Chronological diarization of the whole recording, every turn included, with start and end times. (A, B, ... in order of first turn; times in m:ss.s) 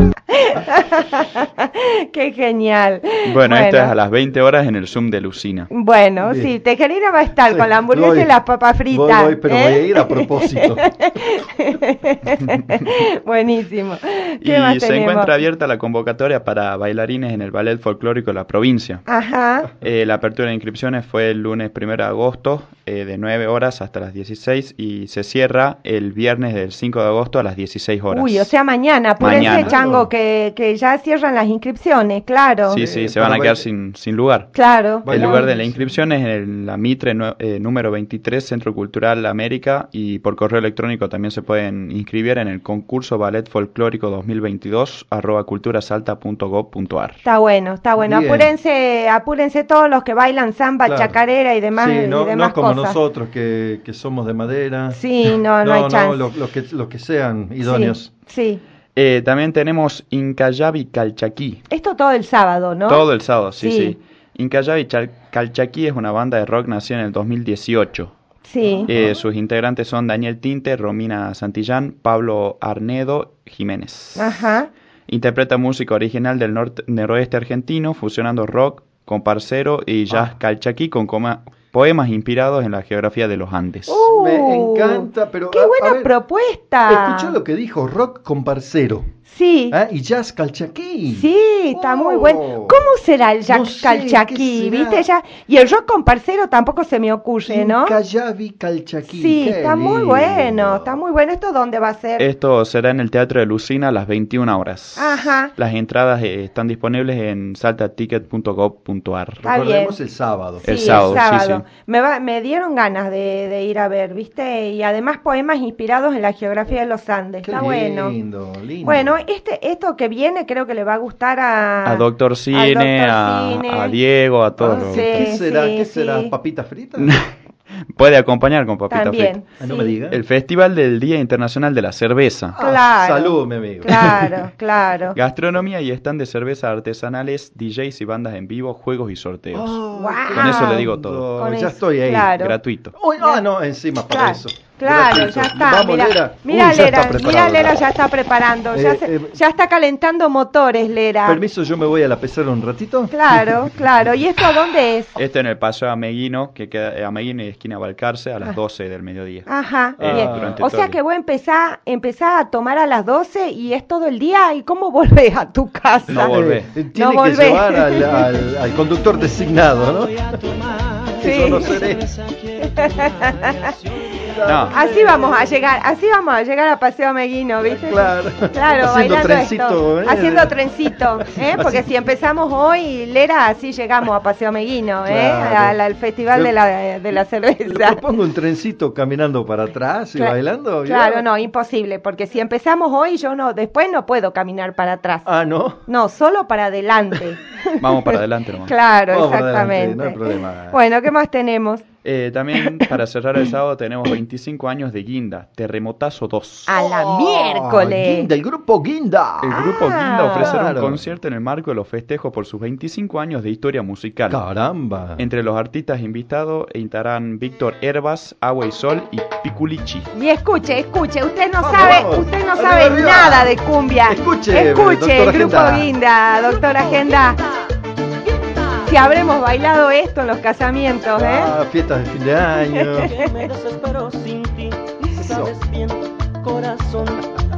0:00.3-0:03.9 A
0:03.2-0:05.7 B
0:05.7-0:15.3 A
0:06.2-0:06.5 C
0:07.5-0:08.4 C
0:08.9-0:10.9 C
0:14.4-0:19.0 B
0:19.1-0:19.7 A
0:19.8-0:28.5 B
0:28.1-0:32.8 A
0:29.2-0:29.8 B
0:29.2-0:30.1 C
0:32.7-0:34.5 B
0:32.7-0:33.7 C
0:34.5-0:35.4 A
0:35.0-0:35.9 C
0:35.1-0:47.2 B
0:47.2-0:53.0 A
0:48.0-0:48.5 C
0:50.8-0:51.2 C
0:51.8-0:58.1 C
0:54.9-0:56.2 A
0:57.6-0:58.6 A
0:59.0-1:01.6 B
1:01.7-1:04.0 A
1:02.9-1:08.1 B
1:08.5-1:08.9 A
1:08.7-1:09.2 C
1:08.9-1:14.4 B
1:14.2-1:14.7 A
1:15.1-1:24.0 B
1:23.9-1:27.3 A
1:24.0-1:26.1 C
1:26.9-1:29.1 C
1:29.3-1:29.8 A
1:29.7-1:32.8 C
1:31.1-1:38.0 A
1:33.5-1:35.1 C
1:37.5-1:41.0 C
1:39.1-1:42.2 A
1:42.2-1:49.4 B
1:45.0-1:45.5 A
1:49.4-1:51.2 C
1:49.4-1:50.0 A
1:50.6-1:58.2 A
1:50.6-1:51.6 B
1:57.4-1:59.2 C
1:58.8-2:04.0 A
2:01.8-2:05.3 B
2:04.6-2:07.2 C
2:04.8-2:06.3 A
2:07.0-2:07.3 B
2:07.9-2:09.4 B
2:08.9-2:09.9 A
2:09.6-2:10.2 C
2:10.1-2:12.6 B
2:12.5-2:14.3 C
2:12.6-2:15.2 A
2:15.2-2:19.8 B
2:19.5-2:22.4 C
2:19.9-2:20.8 A
2:20.3-2:21.2 B
2:21.4-2:22.6 A
2:22.4-2:23.0 B
2:23.0-2:27.8 C
2:24.1-2:31.4 A
2:28.7-2:29.4 C
2:31.2-2:33.7 C
2:33.1-2:35.2 A
2:35.2-2:41.0 B
2:39.5-2:46.3 A
2:40.0-2:40.6 C
2:46.1-2:46.7 B
2:46.2-2:50.3 C
2:46.9-2:48.3 A
2:50.2-2:54.1 D
2:51.2-2:52.1 C
2:51.2-2:51.9 A
2:52.6-2:53.7 A
2:54.2-2:55.0 C
2:54.4-2:54.8 B
2:54.7-3:08.0 A
2:57.6-3:01.9 C
3:05.0-3:05.8 C
3:07.6-3:11.2 C
3:10.2-3:15.3 A
3:15.2-3:15.8 C
3:15.8-3:18.2 A
3:17.8-3:18.7 B
3:18.7-3:21.8 A
3:19.1-3:20.8 C
3:22.0-3:26.7 B
3:22.6-3:22.9 A
3:26.7-3:28.3 A
3:26.7-3:29.7 C
3:29.4-3:34.4 B
3:29.5-3:30.6 A
3:30.3-3:31.0 C
3:34.3-3:35.2 C
3:35.2-3:40.1 B
3:40.1-3:47.4 A
3:41.6-3:45.9 C
3:48.4-3:48.8 D
3:48.8-3:51.5 A
3:51.2-3:53.1 C
3:52.7-3:53.2 A
3:53.0-3:57.2 D
3:55.2-3:55.6 C